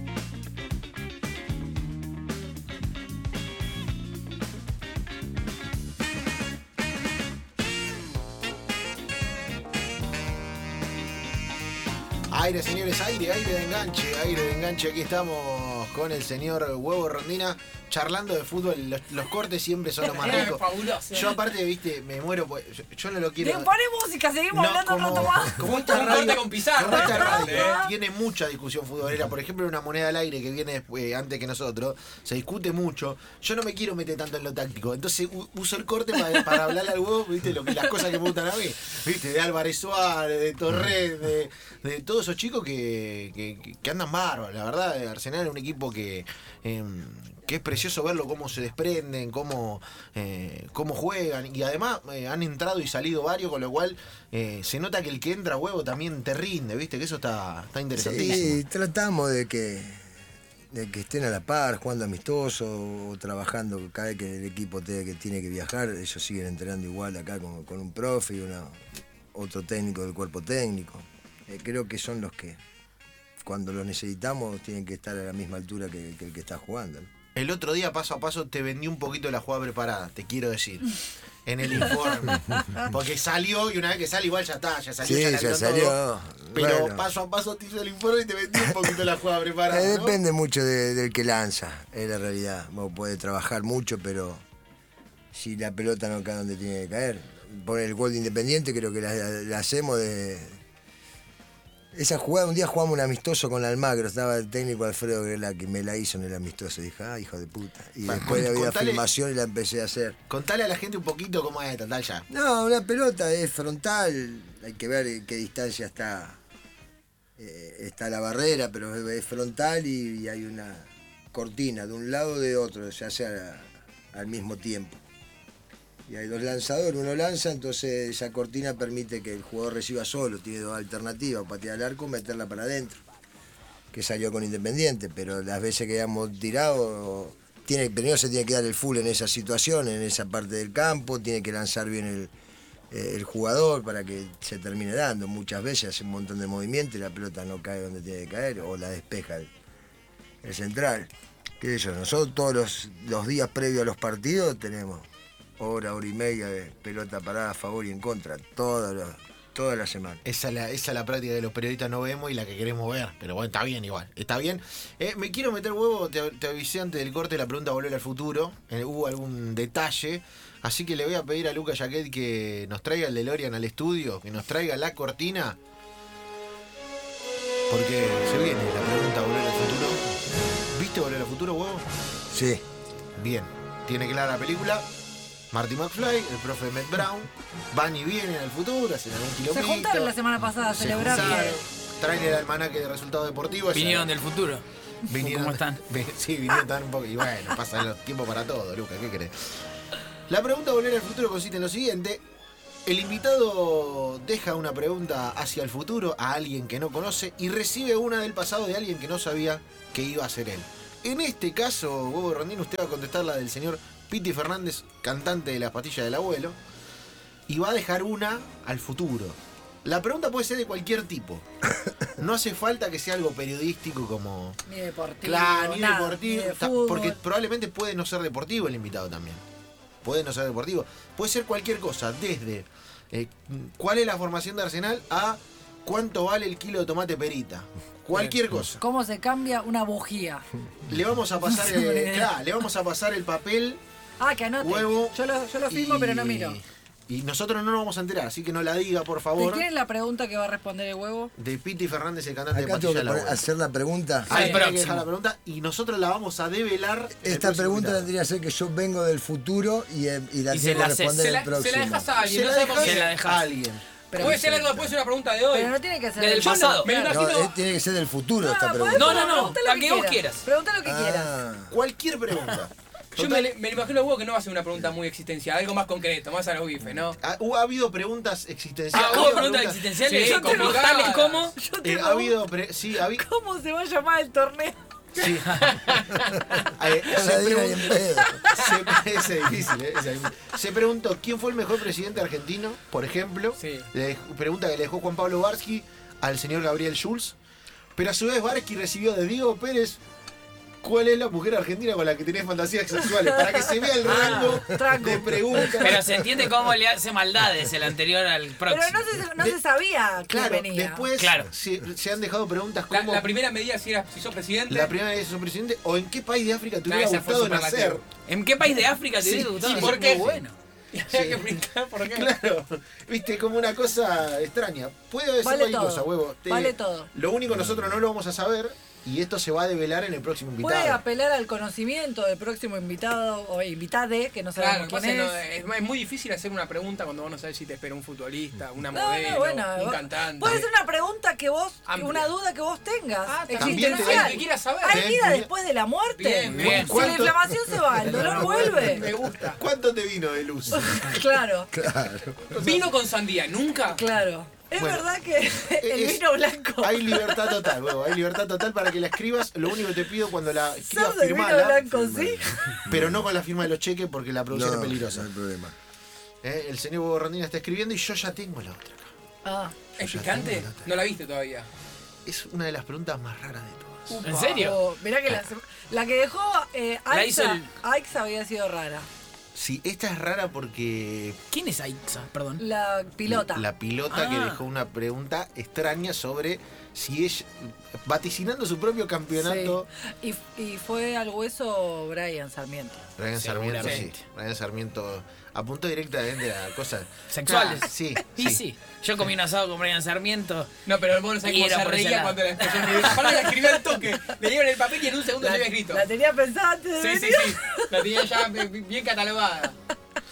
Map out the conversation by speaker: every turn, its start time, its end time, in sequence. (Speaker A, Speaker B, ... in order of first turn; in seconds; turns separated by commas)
Speaker A: 12.3-23.7, Speaker B: 20.0-21.3, Speaker C: 20.2-20.5, Speaker C: 21.1-21.4, Speaker C: 23.4-26.2, Speaker A: 24.5-58.6, Speaker B: 25.6-27.8, Speaker C: 26.8-27.9, Speaker D: 57.9-60.1, Speaker D: 60.7-72.6, Speaker D: 73.4-77.1, Speaker A: 77.3-80.9, Speaker A: 81.5-86.0, Speaker D: 85.0-87.0, Speaker A: 86.5-90.2, Speaker D: 89.7-94.4, Speaker D: 95.3-100.6, Speaker D: 101.9-110.2, Speaker A: 108.0-109.0, Speaker A: 110.3-112.2, Speaker D: 112.3-116.4, Speaker D: 117.4-125.0, Speaker D: 126.1-133.0, Speaker D: 133.9-142.3, Speaker D: 142.9-149.5, Speaker D: 150.4-155.1, Speaker D: 155.6-160.2, Speaker A: 160.2-175.6, Speaker A: 177.7-180.0, Speaker A: 180.7-181.8, Speaker D: 182.3-182.6, Speaker A: 183.2-184.8, Speaker A: 185.5-190.1, Speaker C: 189.5-191.6, Speaker A: 190.7-194.1, Speaker E: 193.7-194.6, Speaker A: 195.1-199.6, Speaker E: 195.2-195.8, Speaker A: 200.3-202.2, Speaker A: 202.8-216.6, Speaker A: 217.5-221.4, Speaker A: 222.2-224.6, Speaker C: 224.7-227.2, Speaker A: 225.2-229.4, Speaker A: 230.0-238.8, Speaker C: 238.8-240.4, Speaker A: 240.8-243.8, Speaker C: 241.6-242.3, Speaker C: 244.2-246.6, Speaker A: 244.6-245.2, Speaker A: 245.7-249.7, Speaker C: 249.3-251.3, Speaker A: 251.3-253.4, Speaker D: 252.5-254.4, Speaker A: 254.3-258.1, Speaker B: 254.3-254.6, Speaker E: 254.3-255.0, Speaker D: 257.2-262.1, Speaker E: 260.5-261.3, Speaker B: 261.1-263.1, Speaker A: 262.2-263.8, Speaker E: 262.7-263.5, Speaker C: 264.1-264.6, Speaker B: 264.2-265.8, Speaker D: 264.3-264.8, Speaker C: 265.5-267.3, Speaker E: 266.1-267.1, Speaker B: 266.4-267.5, Speaker D: 267.1-269.5, Speaker C: 268.4-271.3, Speaker E: 268.9-270.4, Speaker D: 270.8-271.7, Speaker A: 271.7-273.5, Speaker B: 273.1-277.2, Speaker A: 277.2-279.9, Speaker E: 278.9-281.6, Speaker B: 279.0-279.4, Speaker B: 280.0-281.5, Speaker C: 280.2-281.0, Speaker C: 281.6-282.4, Speaker A: 281.8-283.2, Speaker C: 283.0-284.8, Speaker A: 285.1-285.7, Speaker B: 285.6-286.2, Speaker A: 286.7-297.4, Speaker D: 287.0-288.4, Speaker C: 288.2-288.6, Speaker B: 293.6-293.9, Speaker A: 297.9-300.0, Speaker A: 300.8-306.2, Speaker E: 304.0-304.6, Speaker C: 304.0-306.0, Speaker E: 305.8-309.0, Speaker C: 308.7-311.1, Speaker A: 310.3-313.2, Speaker E: 311.2-311.5, Speaker B: 312.9-314.9, Speaker A: 314.7-318.0, Speaker B: 316.9-318.0, Speaker E: 318.3-320.5, Speaker B: 319.2-320.4, Speaker A: 319.6-320.4, Speaker B: 320.9-322.3, Speaker A: 321.1-331.0, Speaker C: 325.4-327.1, Speaker C: 330.6-335.4, Speaker B: 334.6-340.6, Speaker C: 338.9-349.1, Speaker B: 341.9-342.3, Speaker B: 343.2-345.1, Speaker A: 343.6-345.5, Speaker B: 346.1-347.3, Speaker A: 346.6-351.2, Speaker B: 348.0-349.6, Speaker C: 350.7-351.7, Speaker D: 351.7-352.4, Speaker A: 352.4-352.9, Speaker B: 352.6-354.0, Speaker C: 353.9-358.1, Speaker A: 354.8-355.1, Speaker A: 355.6-356.2, Speaker A: 356.8-362.1, Speaker C: 360.8-362.8, Speaker D: 361.9-363.3, Speaker A: 362.9-365.3, Speaker D: 364.5-365.7, Speaker A: 366.4-369.1, Speaker C: 369.4-369.7, Speaker A: 370.0-370.9, Speaker B: 370.0-371.7, Speaker A: 372.2-374.2, Speaker B: 374.1-374.6, Speaker E: 374.2-374.8, Speaker C: 374.2-379.1, Speaker E: 377.1-377.7, Speaker A: 379.5-381.4, Speaker E: 381.5-382.6, Speaker C: 382.6-383.7, Speaker A: 383.2-389.9, Speaker E: 384.1-384.6, Speaker C: 389.3-393.0, Speaker A: 393.2-398.6, Speaker E: 393.3-394.2, Speaker E: 397.3-400.7, Speaker B: 400.9-406.1, Speaker E: 401.4-403.1, Speaker C: 403.1-404.0, Speaker C: 405.4-408.3, Speaker B: 407.0-409.8